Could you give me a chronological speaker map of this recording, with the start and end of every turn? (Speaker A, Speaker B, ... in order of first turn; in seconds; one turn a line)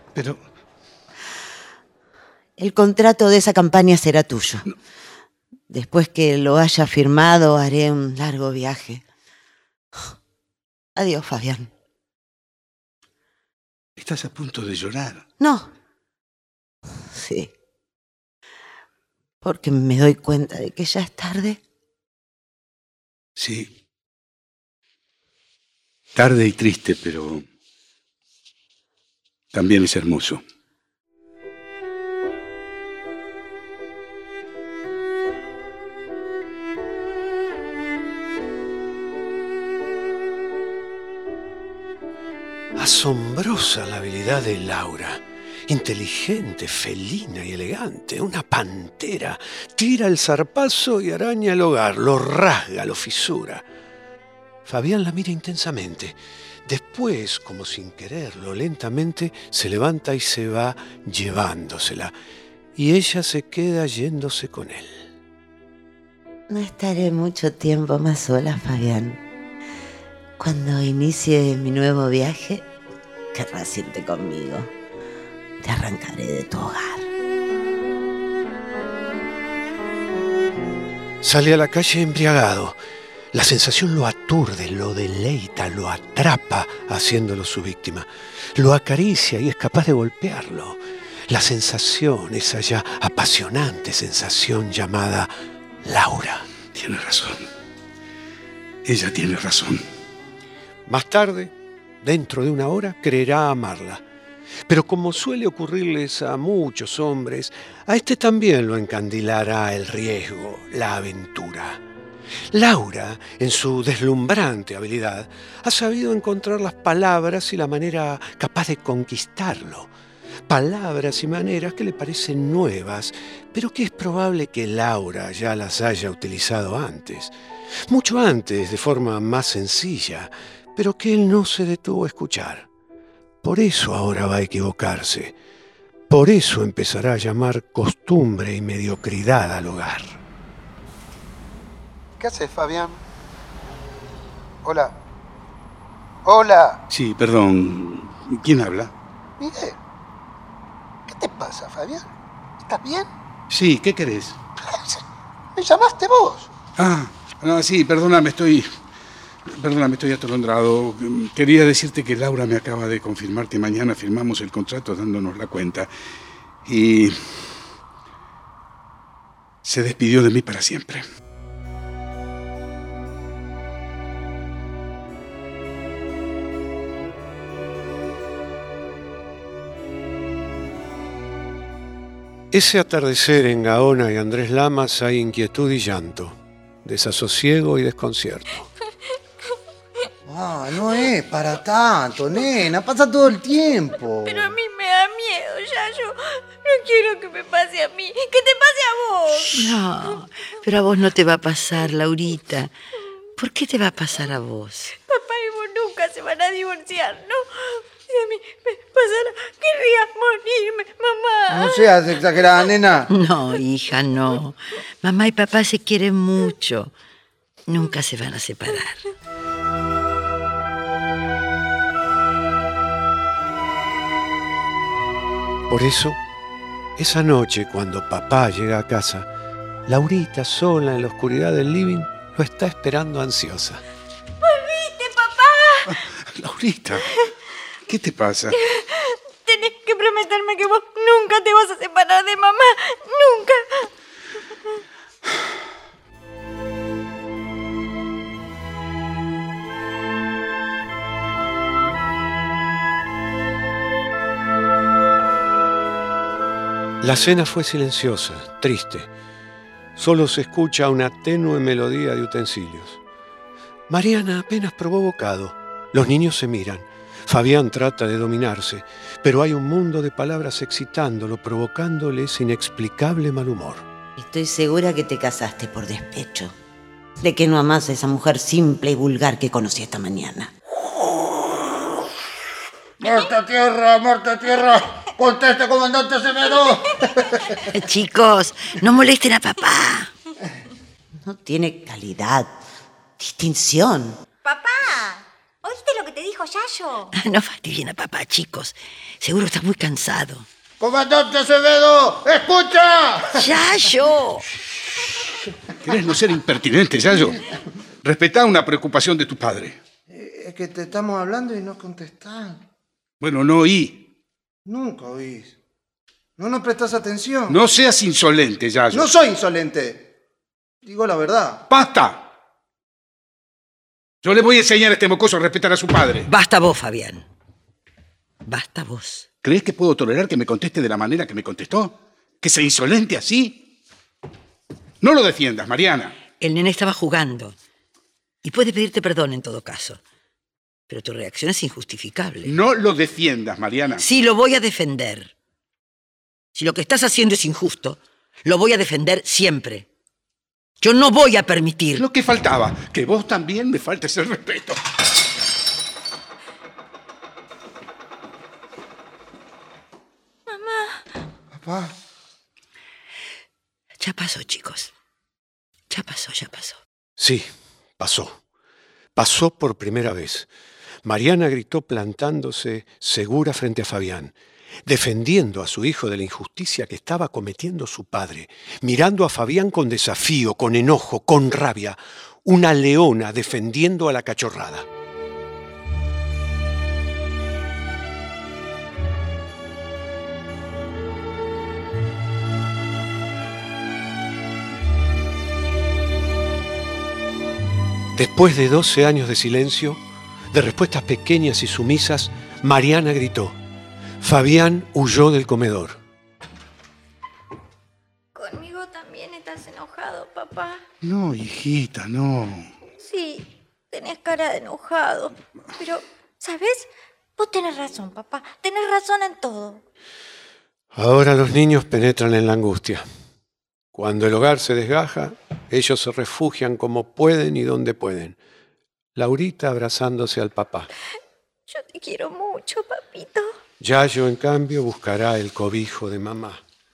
Speaker A: 0.1-0.4
Speaker B: 2.6-4.6
Speaker B: 5.7-9.0
Speaker B: 10.9-11.7
Speaker A: 13.9-15.2
Speaker B: 15.4-15.7
Speaker B: 17.1-17.5
Speaker B: 19.4-21.6
Speaker A: 23.4-23.7
Speaker A: 26.1-27.4
Speaker A: 29.5-30.4
Speaker C: 42.8-53.6
Speaker C: 54.6-62.1
Speaker C: 62.8-65.1
Speaker B: 66.5-69.2
Speaker B: 70.4-72.7
Speaker B: 73.3-74.7
Speaker B: 75.6-77.1
Speaker C: 81.2-82.8
Speaker C: 83.3-95.3
Speaker C: 95.8-96.5
Speaker A: 96.7-97.5
Speaker A: 98.8-99.8
Speaker C: 100.9-104.0
Speaker C: 104.7-111.8
Speaker C: 112.5-119.9
Speaker C: 120.5-127.3
Speaker C: 127.9-132.7
Speaker C: 133.4-135.3
Speaker C: 136.1-140.2
Speaker D: 142.2-143.0
Speaker D: 144.6-145.0
Speaker D: 146.2-146.8
Speaker A: 146.9-148.9
Speaker D: 149.4-149.8
Speaker D: 151.1-152.1
Speaker D: 152.6-153.1
Speaker A: 153.5-154.4
Speaker D: 154.6-155.0
Speaker D: 155.5-156.5
Speaker A: 156.8-158.7
Speaker A: 159.4-165.9
Speaker A: 166.6-167.6
Speaker A: 169.6-171.0
Speaker C: 182.5-188.7
Speaker E: 190.2-194.4
Speaker F: 194.2-200.1
Speaker G: 199.4-202.7
Speaker G: 203.3-204.9
Speaker F: 204.9-212.7
Speaker E: 211.5-213.1
Speaker G: 213.1-216.9
Speaker G: 217.7-219.1
Speaker C: 225.7-226.2
Speaker C: 226.9-229.3
Speaker C: 229.9-233.8
Speaker F: 234.4-236.1
Speaker A: 235.9-237.1
Speaker F: 237.0-237.3
Speaker A: 237.8-238.6
Speaker F: 238.5-243.9
Speaker C: 257.0-259.1
Speaker C: 259.9-263.0
Speaker C: 263.9-273.9
Speaker B: 274.2-276.5
Speaker B: 277.2-280.5
Speaker E: 281.0-281.6
Speaker E: 283.0-287.4
Speaker F: 286.5-287.4
Speaker G: 287.6-290.1
Speaker B: 291.2-292.5
Speaker B: 293.2-294.2
Speaker F: 294.4-297.1
Speaker G: 297.1-300.5
Speaker E: 300.8-303.4
Speaker G: 303.3-304.4
Speaker A: 305.8-307.4
Speaker A: 308.0-309.8
Speaker E: 310.1-312.6
Speaker A: 313.2-314.1
Speaker E: 314.6-315.5
Speaker E: 316.4-317.6
Speaker A: 317.5-319.1
Speaker E: 318.9-320.1
Speaker E: 320.8-321.6
Speaker A: 321.7-322.2
Speaker A: 324.2-326.3
Speaker G: 326.2-327.2
Speaker G: 328.4-329.2
Speaker A: 329.4-333.7
Speaker A: 335.0-336.1
Speaker G: 336.4-337.6
Speaker G: 338.4-340.0
Speaker G: 340.9-342.5
Speaker A: 342.4-344.0
Speaker G: 343.9-345.3
Speaker G: 346.5-349.9
Speaker G: 350.8-352.0
Speaker A: 352.0-354.8
Speaker F: 360.5-361.0
Speaker E: 361.5-361.9
Speaker G: 364.0-364.9
Speaker G: 365.9-366.8
Speaker C: 367.2-368.4
Speaker C: 369.1-370.5
Speaker C: 371.0-384.9
Speaker C: 398.1-400.0
Speaker C: 400.5-403.6
Speaker C: 404.2-406.0
Speaker F: 408.3-410.8
Speaker A: 411.0-412.7
Speaker F: 413.0-419.8
Speaker C: 420.9-423.1
Speaker C: 423.9-428.4
Speaker C: 429.1-430.9
Speaker F: 431.7-433.5
Speaker C: 433.8-436.6